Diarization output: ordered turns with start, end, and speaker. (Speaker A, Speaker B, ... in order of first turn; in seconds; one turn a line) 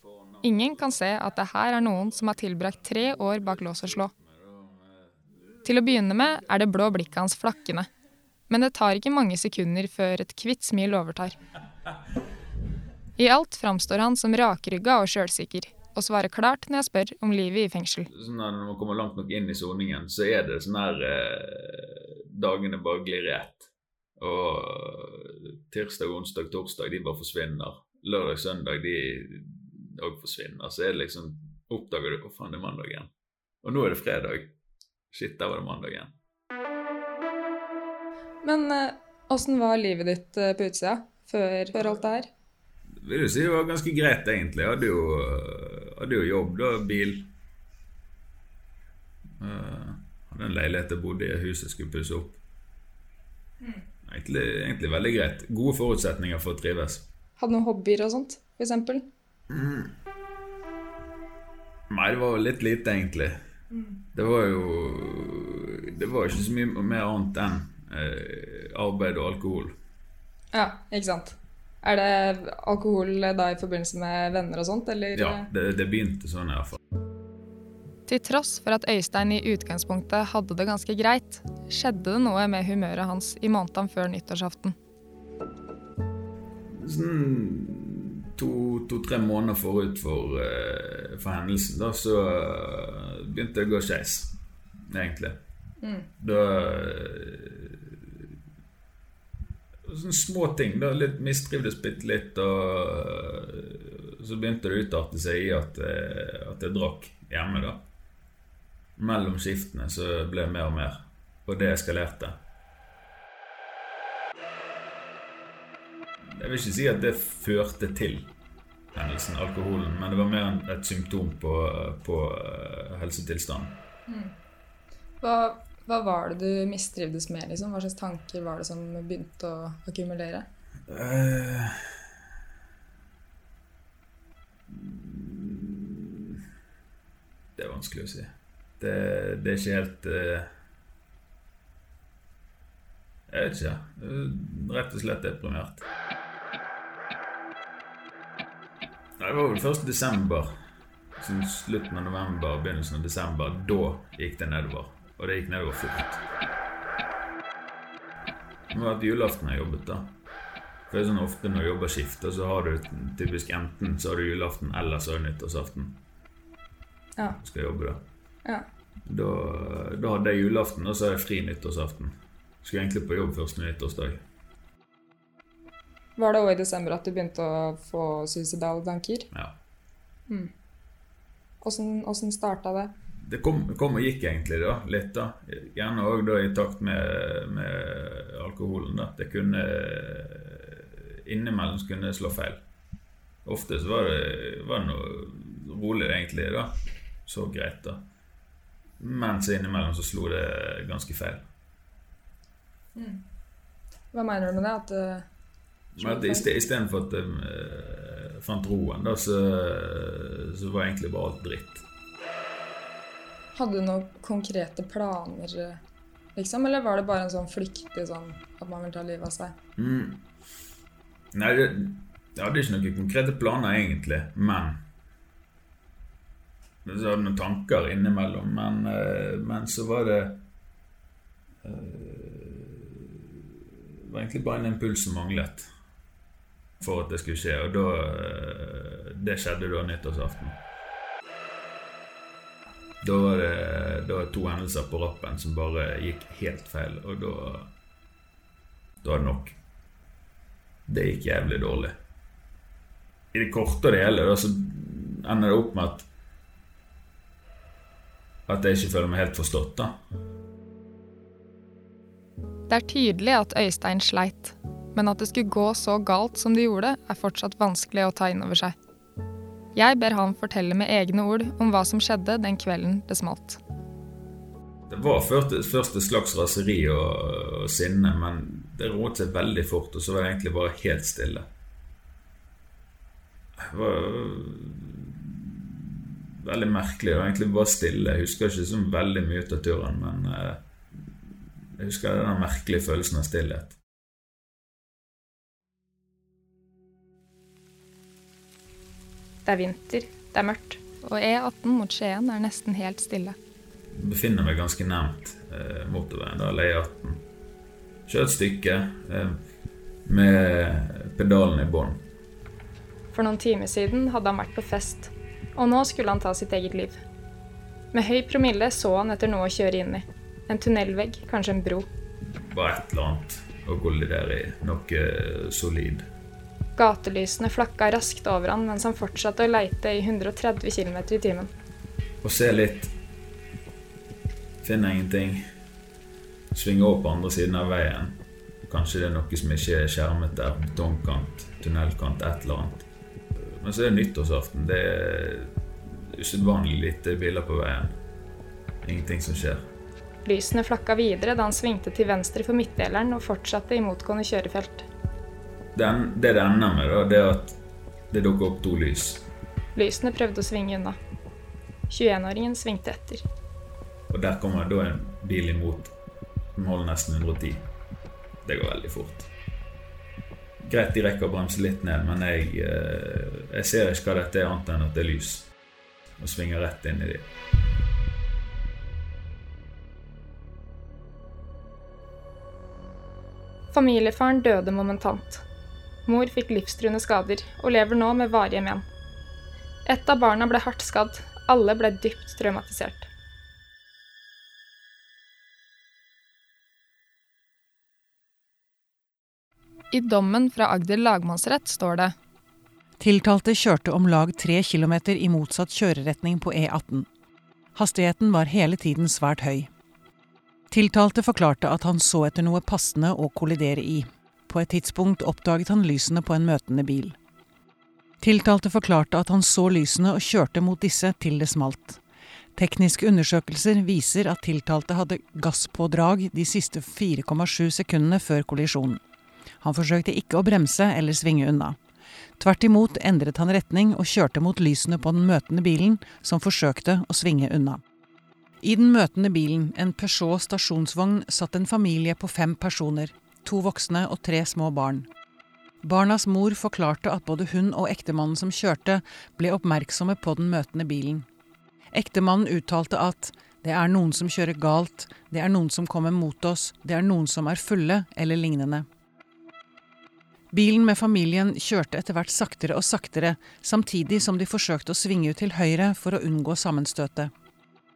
Speaker A: 0.4-4.1
Speaker B: 3.6-5.1
Speaker A: 5.6-7.9
Speaker A: 8.5-11.4
Speaker A: 13.2-18.1
Speaker B: 18.1-33.1
Speaker B: 33.6-34.5
Speaker B: 35.1-36.1
Speaker A: 38.4-42.3
Speaker B: 43.0-47.3
Speaker B: 49.4-52.4
Speaker B: 54.1-57.1
Speaker A: 57.4-59.1
Speaker B: 59.5-59.9
Speaker B: 61.9-63.4
Speaker B: 64.1-69.8
Speaker A: 70.5-75.5
Speaker B: 75.2-76.8
Speaker A: 78.1-84.8
Speaker B: 86.7-94.4
Speaker B: 94.9-95.4
Speaker A: 95.8-96.1
Speaker B: 96.2-98.0
Speaker B: 99.9-107.8
Speaker B: 109.0-112.4
Speaker B: 116.3-118.3
Speaker B: 118.9-123.8
Speaker A: 124.1-124.3
Speaker A: 125.2-130.5
Speaker B: 130.9-132.0
Speaker B: 134.7-136.4
Speaker B: 137.6-140.5
Speaker B: 143.3-145.9
Speaker B: 149.2-150.6
Speaker B: 151.2-156.2
Speaker B: 158.7-160.1
Speaker B: 160.9-166.0
Speaker B: 167.4-168.0
Speaker B: 169.1-174.2
Speaker A: 176.2-179.3
Speaker A: 181.6-182.9
Speaker B: 183.2-192.6
Speaker B: 193.4-198.1
Speaker B: 199.0-201.5
Speaker A: 202.9-203.2
Speaker A: 204.1-205.3
Speaker B: 205.9-211.8
Speaker A: 206.0-206.5
Speaker A: 213.6-215.8
Speaker A: 216.4-219.6
Speaker B: 219.8-220.2
Speaker B: 221.3-224.8
Speaker B: 226.8-230.4
Speaker B: 231.6-233.1
Speaker B: 234.1-235.7
Speaker B: 236.8-240.6
Speaker B: 243.0-247.7
Speaker B: 249.0-249.6
Speaker B: 250.9-252.0
Speaker B: 253.3-256.1
Speaker B: 258.5-259.9
Speaker A: 262.7-268.8
Speaker A: 269.8-273.6
Speaker B: 274.9-281.5
Speaker B: 283.6-285.9
Speaker B: 286.4-290.6
Speaker B: 291.8-293.8
Speaker A: 299.4-303.4
Speaker B: 303.9-307.2
Speaker B: 308.1-309.4
Speaker B: 310.1-312.0
Speaker A: 313.1-317.0
Speaker A: 317.9-321.9
Speaker B: 322.3-326.1
Speaker A: 326.8-331.5
Speaker B: 332.2-332.9
Speaker B: 334.6-335.4
Speaker B: 336.5-342.9
Speaker B: 343.4-348.0
Speaker B: 348.8-349.7
Speaker A: 350.2-354.9
Speaker B: 355.8-357.6
Speaker B: 358.1-359.3
Speaker A: 359.8-361.0
Speaker A: 361.9-363.2
Speaker B: 364.1-365.9
Speaker B: 366.6-367.7
Speaker B: 368.4-369.3
Speaker B: 370.6-375.5
Speaker B: 376.2-377.3
Speaker A: 383.7-385.4
Speaker A: 386.1-388.8
Speaker A: 389.9-393.1
Speaker A: 399.9-402.1
Speaker C: 403.0-407.1
Speaker C: 407.8-409.7
Speaker C: 410.7-417.2
Speaker C: 418.2-422.0
Speaker C: 422.6-429.0
Speaker C: 429.6-431.8
Speaker C: 432.4-437.8
Speaker C: 438.6-445.1
Speaker C: 445.8-451.3
Speaker C: 451.9-458.9
Speaker C: 460.5-467.3